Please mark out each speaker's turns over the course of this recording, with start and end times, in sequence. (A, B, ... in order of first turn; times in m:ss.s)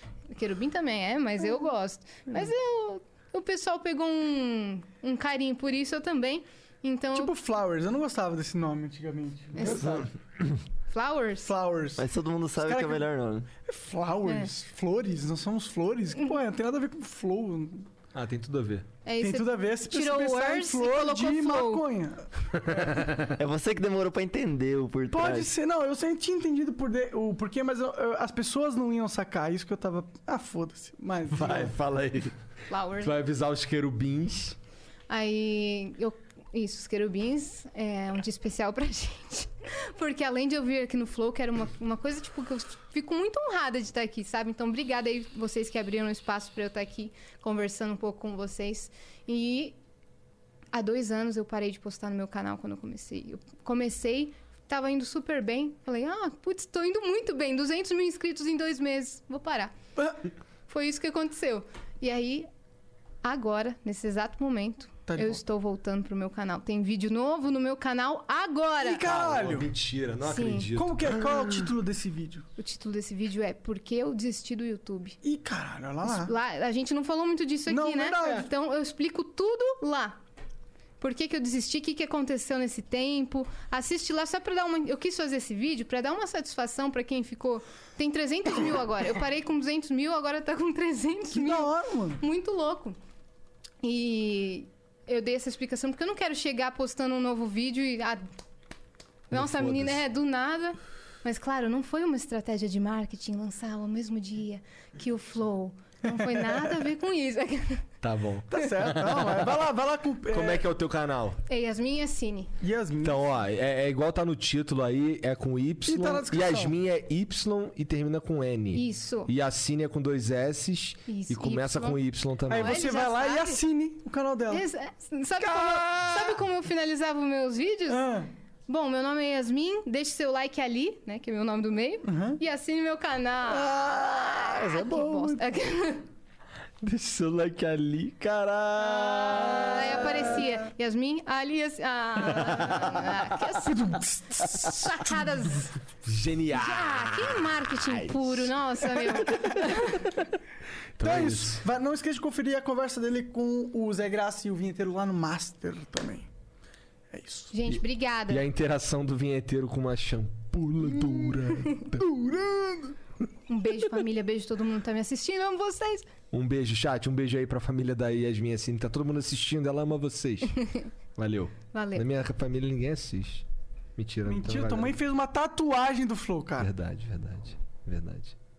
0:00.3-0:07.3 A
0:07.1-0:10.1 B
0:09.6-0:10.0 A
0:10.9-0:11.5 A
0:11.4-0:12.0 B
0:12.0-0:13.5 C
0:12.6-0:13.0 B
0:13.6-0:17.9 B
0:18.1-0:18.9 D
0:19.1-0:21.8 A
0:19.2-0:22.4 B
0:22.6-0:23.4 D
0:23.4-0:25.5 C
0:25.1-0:31.7 B
0:31.3-0:32.3 D
0:32.7-0:33.1 A
0:33.0-0:34.6 D
0:35.1-0:49.8 A
0:50.7-0:59.7 A
1:00.0-1:00.2 B
1:00.7-1:02.5 A
1:03.2-1:09.0 A
1:05.1-1:05.4 B
1:08.8-1:09.7 B
1:09.0-1:11.4 D
1:10.2-1:10.7 A
1:10.8-1:12.5 B
1:12.6-1:15.2 A
1:15.2-1:16.3 B
1:16.0-1:20.2 A
1:17.7-1:18.5 B
1:21.0-1:33.0 A
1:31.3-1:32.2 B
1:33.8-1:38.2 A
1:39.3-1:47.8 A
1:39.3-1:40.0 D
1:46.1-1:46.7 B
1:48.0-1:49.6 D
1:48.5-1:50.6 B
1:50.3-1:51.4 D
1:51.5-1:52.5 A
1:52.6-1:53.4 B
1:53.0-2:02.8 D
1:55.9-1:56.8 B
1:58.7-1:59.3 A
2:01.1-2:02.0 A
2:02.5-2:04.7 B
2:02.5-2:03.6 A
2:04.5-2:08.2 A
2:05.4-2:06.4 B
2:07.9-2:08.3 B
2:08.7-2:16.1 A
2:12.0-2:12.4 B
2:13.5-2:15.4 B
2:16.8-2:20.1 D
2:19.2-2:23.9 A
2:19.4-2:20.2 B
2:23.5-2:25.6 B
2:24.8-2:25.7 A
2:26.0-2:28.5 D
2:26.5-2:30.1 A
2:31.0-2:31.6 D
2:31.0-2:36.3 B
2:37.1-2:37.5 B
2:37.5-2:38.4 A
2:38.3-2:42.1 D
2:40.9-2:43.0 B
2:43.5-2:46.1 A
2:46.3-2:50.6 D
2:51.2-2:53.4 D
2:51.7-2:52.0 A
2:54.0-2:55.0 D
2:54.3-2:56.7 B
2:56.6-2:58.4 D